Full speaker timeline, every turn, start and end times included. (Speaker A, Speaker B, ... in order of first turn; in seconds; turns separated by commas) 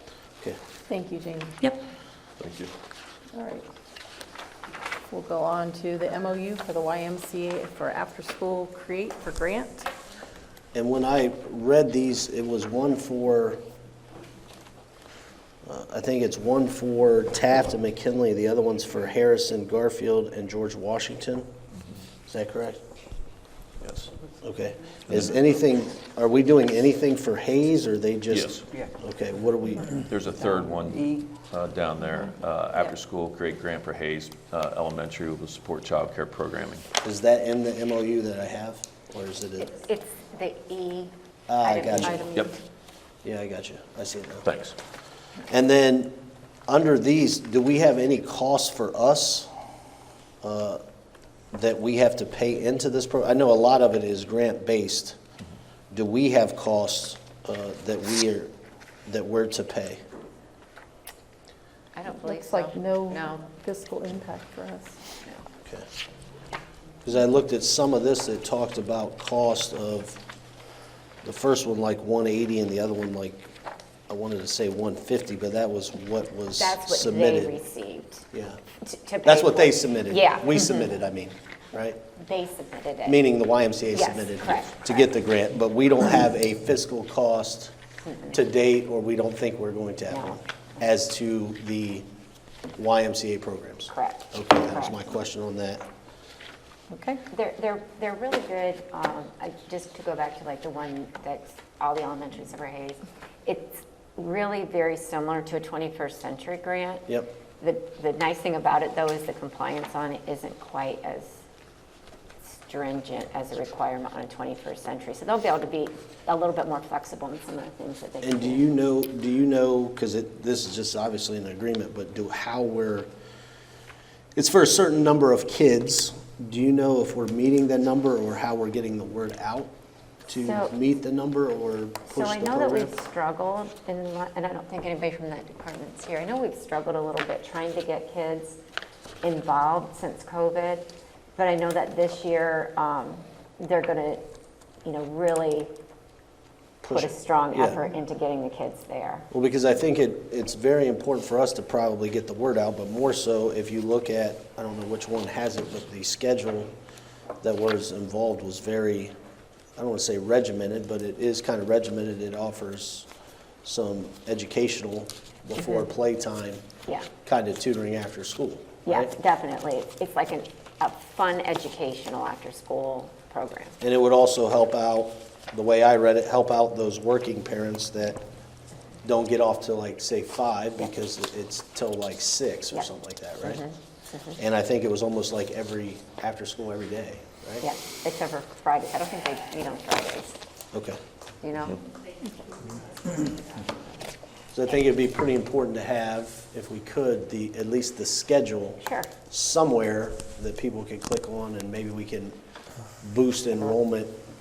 Speaker A: 0.9-1.6, Speaker B: 2.4-2.7, Speaker A: 3.3-3.7, Speaker A: 5.1-9.9, Speaker C: 10.7-13.6, Speaker C: 15.7-21.5, Speaker C: 22.3-22.8, Speaker B: 23.8-24.1, Speaker C: 24.4-30.1, Speaker B: 28.3-28.6, Speaker B: 30.0-36.9, Speaker C: 37.0-39.7, Speaker D: 39.6-42.4, Speaker C: 41.5-42.2, Speaker C: 43.2-44.5, Speaker B: 44.4-44.8, Speaker C: 45.5-46.2, Speaker C: 46.7-49.5, Speaker C: 50.4-50.8, Speaker C: 51.5-55.2, Speaker C: 55.9-58.5, Speaker C: 59.1-60.0, Speaker D: 62.0-63.5, Speaker A: 62.1-65.0, Speaker C: 67.0-70.2, Speaker C: 71.2-73.5, Speaker C: 74.1-77.6, Speaker D: 76.6-78.3, Speaker C: 78.3-78.6, Speaker D: 78.8-80.9, Speaker C: 79.2-82.0, Speaker D: 82.2-83.2, Speaker C: 83.0-87.7, Speaker D: 83.9-85.1, Speaker D: 88.1-88.4, Speaker C: 88.3-92.1, Speaker D: 90.1-90.4, Speaker C: 92.8-95.8, Speaker D: 93.9-95.1, Speaker A: 96.9-97.2, Speaker D: 97.3-107.1, Speaker D: 107.6-111.4, Speaker D: 112.5-118.7, Speaker C: 118.2-123.1, Speaker C: 124.4-129.7, Speaker C: 130.3-132.9, Speaker D: 130.3-130.7, Speaker D: 132.1-138.6, Speaker D: 139.2-144.3, Speaker D: 144.8-145.7, Speaker C: 146.8-147.8, Speaker D: 146.9-149.2, Speaker C: 149.3-156.7, Speaker C: 157.4-159.1, Speaker C: 159.8-163.1, Speaker C: 163.6-166.6, Speaker C: 167.2-169.1, Speaker D: 168.8-173.8, Speaker C: 173.8-178.2, Speaker C: 179.0-183.6, Speaker D: 183.4-184.3, Speaker C: 184.4-187.7, Speaker D: 187.6-190.4, Speaker C: 190.7-191.0, Speaker D: 191.4-193.7, Speaker C: 194.5-202.3, Speaker D: 198.8-199.1, Speaker C: 203.0-204.2